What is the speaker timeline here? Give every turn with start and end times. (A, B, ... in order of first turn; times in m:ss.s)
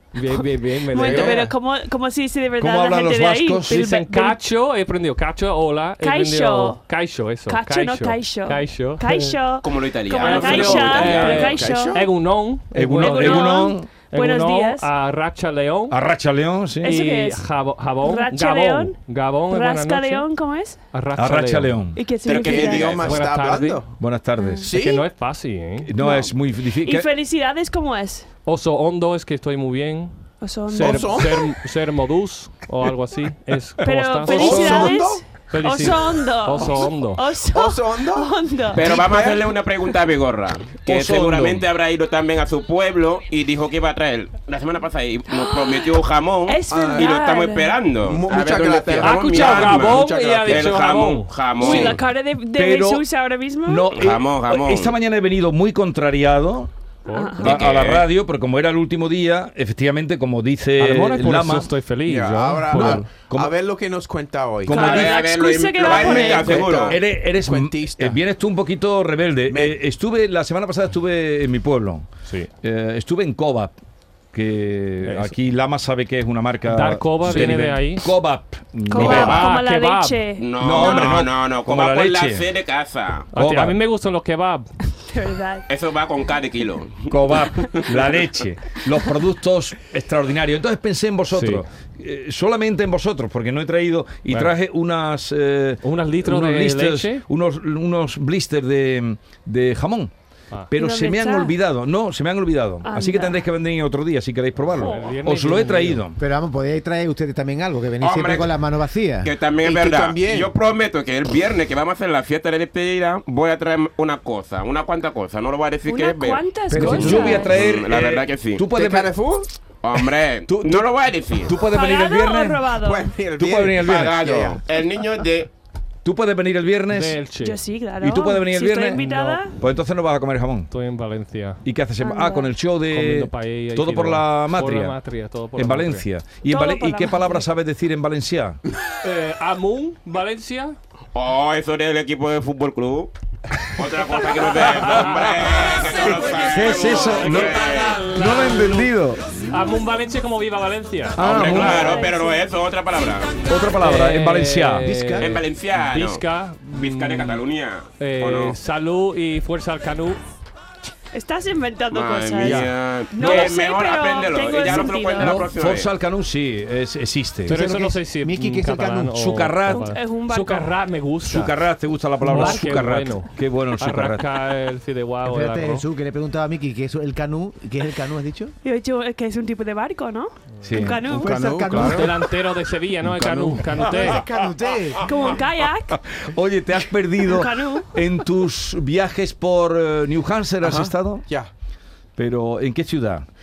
0:00.1-0:01.5 A
0:00.9-0:04.4 B
0:01.0-0:01.4 C
0:02.6-0:03.8 D
0:03.7-0:09.4 A
0:06.0-0:06.8 B
0:07.5-0:12.0 B
0:09.6-0:11.7 C
0:10.2-0:16.0 A
0:11.2-0:12.0 E
0:12.7-0:13.9 D
0:13.0-0:14.9 B
0:15.9-0:17.0 D
0:16.8-0:17.5 B
0:16.8-0:20.3 A
0:18.0-0:20.8 B
0:20.9-0:21.8 A
0:21.2-0:22.0 D
0:22.0-0:23.1 B
0:22.2-0:23.3 C
0:22.3-0:24.0 E
0:22.8-0:23.8 A
0:24.0-0:24.7 D
0:24.4-0:24.6 B
0:24.6-0:25.9 A
0:24.6-0:25.1 E
0:25.9-0:27.1 D
0:26.0-0:28.3 B
0:28.5-0:34.9 A
0:30.4-0:31.3 B
0:30.8-0:31.5 E
0:33.8-0:38.9 B
0:34.3-0:35.0 D
0:34.3-0:35.2 E
0:35.5-0:37.2 A
0:37.5-0:39.5 E
0:38.7-0:52.0 C
0:40.9-0:41.7 D
0:45.3-0:45.9 B
0:46.5-0:47.8 B
0:46.7-0:47.1 E
0:48.0-0:50.9 E
0:49.0-0:51.8 A
0:51.6-0:54.0 B
0:52.5-0:53.0 D
0:53.6-0:56.7 D
0:53.9-0:55.0 C
0:57.1-0:57.6 A
0:57.1-0:57.7 B
0:57.4-1:01.7 D
0:57.4-0:58.1 C
1:00.8-1:03.1 A
1:02.0-1:05.1 E
1:02.7-1:03.5 D
1:04.7-1:07.0 C
1:04.7-1:06.6 B
1:04.8-1:05.1 D
1:05.8-1:08.2 E
1:05.9-1:12.1 D
1:09.5-1:09.8 E
1:12.6-1:13.8 D
1:14.3-1:19.5 D
1:15.0-1:15.3 A
1:16.7-1:18.2 A
1:18.9-1:21.2 B
1:18.9-1:20.2 A
1:19.0-1:19.5 C
1:20.4-1:23.3 C
1:20.6-1:22.5 D
1:23.3-1:24.7 A
1:23.4-1:23.8 D
1:25.0-1:25.7 B
1:25.7-1:28.2 C
1:27.1-1:40.1 D
1:31.3-1:31.6 A
1:35.8-1:37.2 A
1:40.7-1:46.2 D
1:40.8-1:41.6 B
1:42.8-1:43.5 B
1:44.7-1:46.0 A
1:44.8-1:45.1 B
1:46.2-1:49.3 F
1:48.0-1:48.6 C
1:49.2-1:56.5 C
1:49.6-1:50.5 E
1:55.9-1:57.6 B
1:56.7-1:57.4 F
1:56.7-1:59.2 D
1:57.0-1:58.6 C
1:58.7-1:59.5 E
1:59.8-2:01.6 C
2:00.5-2:02.7 D
2:01.6-2:03.1 B
2:02.8-2:04.6 E
2:03.4-2:04.6 D
2:03.8-2:05.5 C
2:06.0-2:07.2 D
2:06.9-2:07.6 A
2:07.4-2:09.6 B
2:08.0-2:09.0 D
2:08.9-2:09.4 A
2:09.6-2:10.7 D
2:10.7-2:11.6 A
2:11.6-2:15.0 D
2:12.0-2:12.5 B
2:12.9-2:16.1 A
2:15.6-2:18.6 D
2:16.4-2:17.4 B
2:19.0-2:20.8 A
2:21.1-2:28.0 C
2:24.1-2:32.0 A
2:24.8-2:25.4 D
2:26.0-2:29.5 D
2:31.2-2:32.0 D
2:31.2-2:33.4 C
2:31.5-2:32.4 B
2:33.5-2:34.9 D
2:33.8-2:37.4 A
2:34.9-2:35.3 F
2:35.2-2:38.6 C
2:38.0-2:40.2 A
2:41.1-2:45.5 B
2:41.9-2:45.9 C
2:45.2-2:47.6 D
2:47.5-2:51.5 A
2:47.5-2:49.3 F
2:49.1-2:50.0 D
2:49.7-2:50.7 B
2:51.2-2:54.2 D
2:52.2-2:55.8 A
2:52.3-2:52.7 F
2:55.2-2:58.5 F
2:58.6-3:01.6 B
3:00.6-3:01.0 D
3:00.8-3:02.2 F
3:01.2-3:02.1 E
3:01.7-3:04.2 A
3:03.1-3:03.6 E
3:03.8-3:05.4 F
3:05.0-3:06.0 B
3:05.9-3:11.2 D
3:07.2-3:08.0 B
3:10.6-3:11.5 E
3:12.2-3:13.2 D